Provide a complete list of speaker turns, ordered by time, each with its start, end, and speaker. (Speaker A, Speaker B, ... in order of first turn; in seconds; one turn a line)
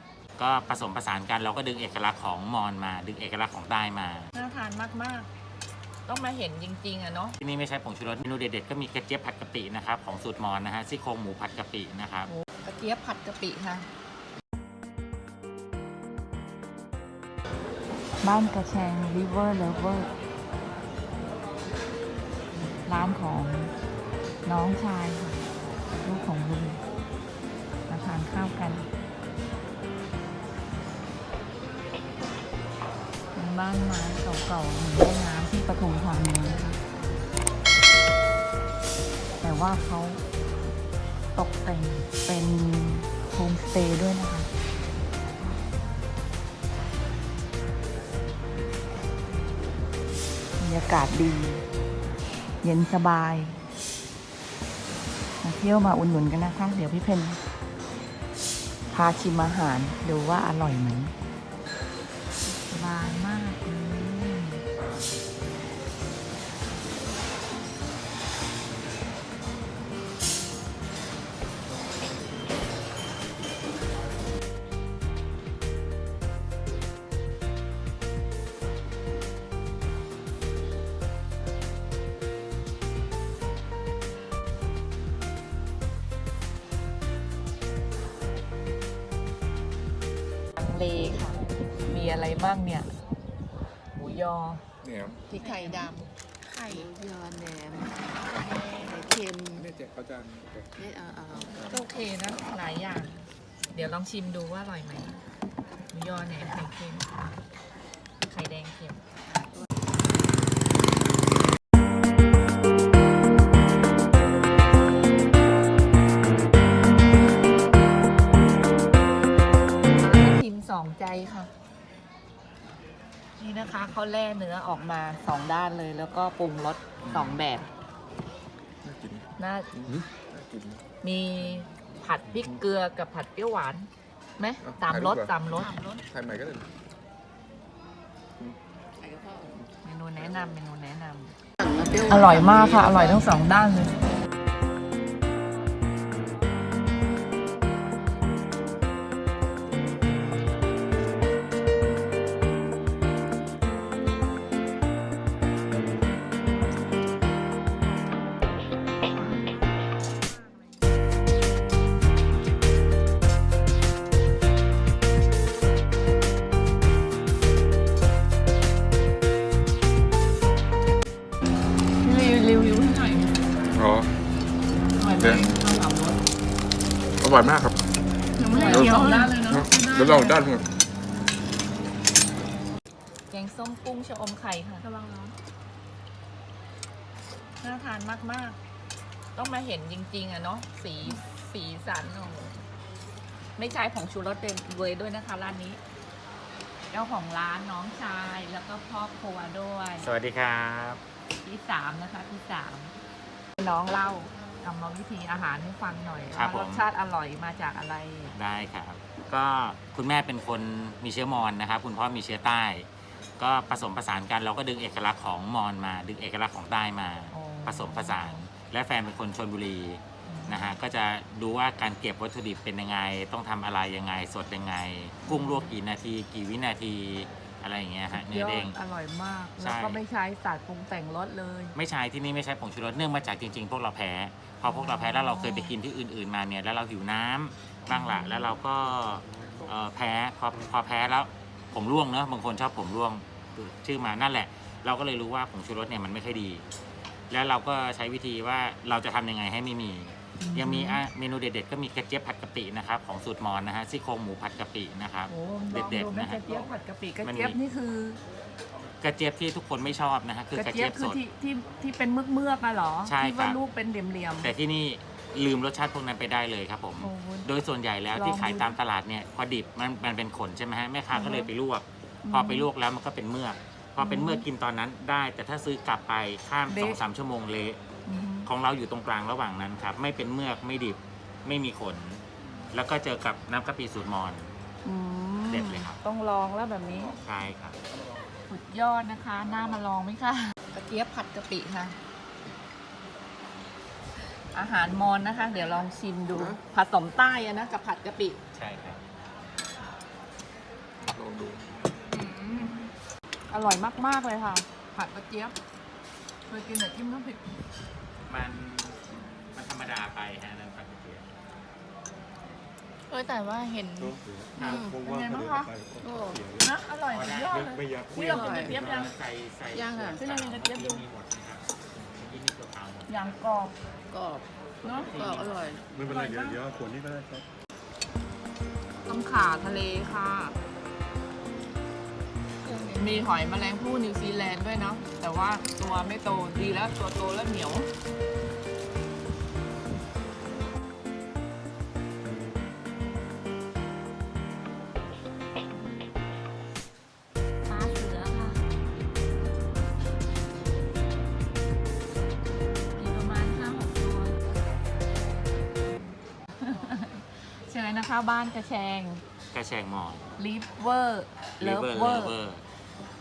Speaker A: 0.4-4.3
Speaker B: 4.3-5.3
Speaker B: 6.1-7.4
Speaker A: 7.4-12.3
Speaker B: 12.3-13.9
Speaker B: 18.2-20.1
Speaker B: 22.8-23.7
Speaker B: 24.5-25.4
Speaker B: 26.0-26.8
Speaker B: 27.9-28.9
Speaker B: 33.4-36.8
Speaker B: 39.4-40.2
Speaker B: 41.4-44.5
Speaker B: 50.6-51.6
Speaker B: 52.6-53.6
Speaker B: 55.4-57.4
Speaker B: 58.9-61.1
Speaker B: 62.5-64.6
Speaker B: 90.6-92.9
Speaker B: 94.0-94.6
Speaker C: 94.8-95.2
Speaker B: 95.3-95.9
Speaker D: 95.3-99.7
Speaker C: 99.5-100.7
Speaker D: 100.8-101.7
Speaker C: 101.4-101.8
Speaker B: 101.7-103.2
Speaker B: 103.7-105.2
Speaker B: 105.9-107.1
Speaker B: 108.2-109.0
Speaker B: 120.0-121.5
Speaker B: 123.4-127.7
Speaker C: 127.0-127.4
Speaker C: 128.8-130.8
Speaker B: 129.4-129.7
Speaker B: 131.0-135.7
Speaker C: 134.6-135.3
Speaker D: 135.6-136.0
Speaker C: 136.0-136.7
Speaker D: 139.0-139.6
Speaker B: 139.8-141.3
Speaker D: 141.6-143.3
Speaker B: 142.0-144.0
Speaker B: 172.0-173.4
Speaker C: 173.8-174.1
Speaker B: 174.9-176.2
Speaker C: 177.2-177.8
Speaker D: 178.4-179.0
Speaker B: 178.4-180.4
Speaker C: 178.6-180.6
Speaker B: 183.3-184.9
Speaker D: 185.1-185.3
Speaker B: 187.6-188.6
Speaker B: 189.3-192.6
Speaker B: 193.6-195.8
Speaker B: 196.9-200.1
Speaker A: 200.0-201.0
Speaker B: 201.4-202.9
Speaker B: 203.6-208.3
Speaker A: 206.3-206.9
Speaker A: 208.3-212.9
Speaker A: 213.4-228.8
Speaker B: 217.3-218.4
Speaker B: 220.3-220.7
Speaker B: 225.3-225.8
Speaker B: 228.1-231.8
Speaker A: 229.6-230.0
Speaker A: 231.8-246.6
Speaker B: 234.7-235.8
Speaker B: 237.9-238.5
Speaker E: 239.1-239.8
Speaker A: 247.3-256.4
Speaker B: 250.4-251.0
Speaker B: 255.3-258.2
Speaker A: 257.2-257.6
Speaker A: 259.0-261.2
Speaker B: 260.5-264.5
Speaker A: 263.0-263.6
Speaker A: 264.4-277.8
Speaker B: 267.0-267.5
Speaker B: 268.1-268.8
Speaker B: 271.1-271.5
Speaker B: 272.2-272.7
Speaker B: 274.0-274.5
Speaker B: 276.7-277.0
Speaker B: 278.1-278.5
Speaker A: 278.5-284.5
Speaker B: 284.9-287.2
Speaker A: 285.5-286.0
Speaker A: 287.2-287.8
Speaker B: 288.5-292.0
Speaker B: 294.5-298.4
Speaker A: 298.5-299.0
Speaker C: 301.1-301.7
Speaker B: 302.1-302.9
Speaker B: 303.5-305.6
Speaker B: 306.5-307.4
Speaker A: 308.3-309.0
Speaker A: 309.5-311.3
Speaker D: 313.1-315.0
Speaker E: 314.0-316.7
Speaker B: 315.0-315.7
Speaker D: 316.0-316.4
Speaker B: 316.6-319.1
Speaker A: 317.1-323.2
Speaker E: 317.5-318.4
Speaker D: 318.2-318.8
Speaker D: 319.7-320.2
Speaker B: 320.2-321.1
Speaker B: 323.1-323.8
Speaker D: 324.1-325.8
Speaker A: 324.8-325.8
Speaker B: 324.9-325.1
Speaker E: 325.9-327.5
Speaker B: 326.0-326.6
Speaker B: 329.1-330.6
Speaker D: 332.6-333.5
Speaker B: 333.0-337.9
Speaker B: 347.7-348.6
Speaker B: 353.0-354.4
Speaker B: 356.6-359.2
Speaker A: 359.5-360.2
Speaker B: 360.4-362.3
Speaker A: 361.6-362.6